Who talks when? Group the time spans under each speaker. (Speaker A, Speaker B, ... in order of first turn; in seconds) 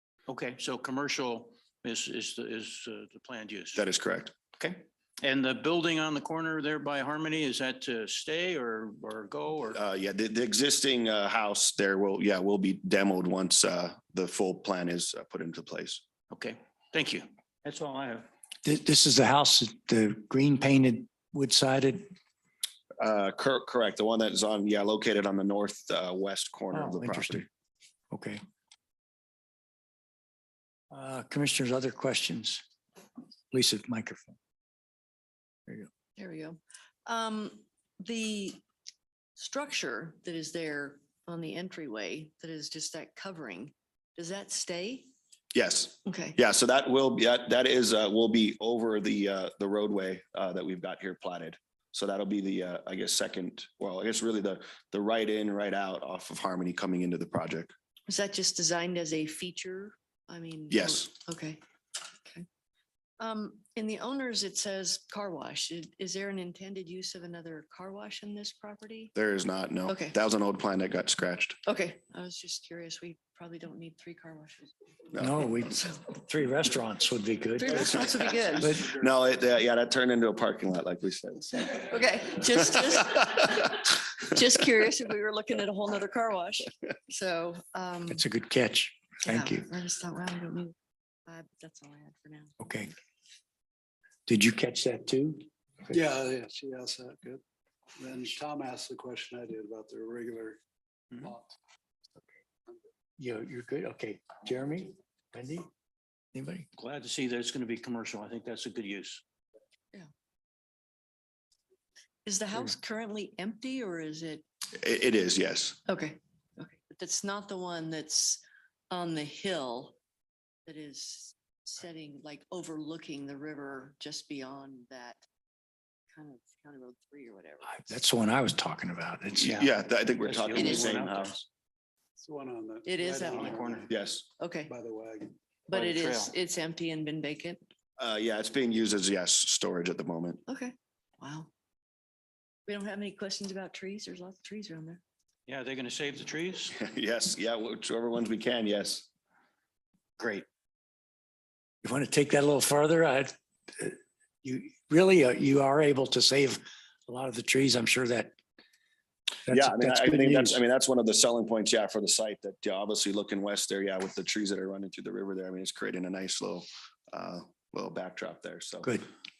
Speaker A: 0.3-3.8, 4.6-9.8, 16.3-18.3, 106.8-109.2, 130.2-131.4, 133.3-133.9, 135.7-136.3, 145.5-146.7, 150.2-150.4
Speaker B: 3.8-4.3, 9.7-16.0, 23.0-27.4, 45.5-57.7, 60.7-61.1, 69.1-71.6, 77.8-81.9, 114.8-115.8, 129.4-131.3, 133.9-134.2, 138.0-140.4, 146.7-149.1, 159.5-168.9
Speaker C: 18.6-22.1, 26.7-27.4, 28.1-28.4, 30.9-32.6, 33.5-34.4, 75.2-77.9, 78.6-78.9, 88.1-89.7, 92.6-92.9, 94.3-96.0, 103.2-105.7, 106.3-106.7, 127.6-129.7, 151.8-158.3, 159.4-160.6
Speaker D: 36.2-38.6, 39.4-45.1, 46.0-46.4, 58.1-61.6, 63.2-69.1, 69.9-70.2, 71.7-74.7, 77.6-78.7, 81.8-88.2, 89.2-90.7, 91.3-92.5, 112.2-114.4, 115.9-120.0, 120.7-125.2, 126.1-127.8, 130.5-130.9, 132.8-133.8, 134.4-134.7, 135.7-137.6, 140.5-141.5, 142.7-145.0
Speaker E: 95.9-97.4, 98.0-100.6, 101.2-101.5, 132.2-133.9, 134.7-135.3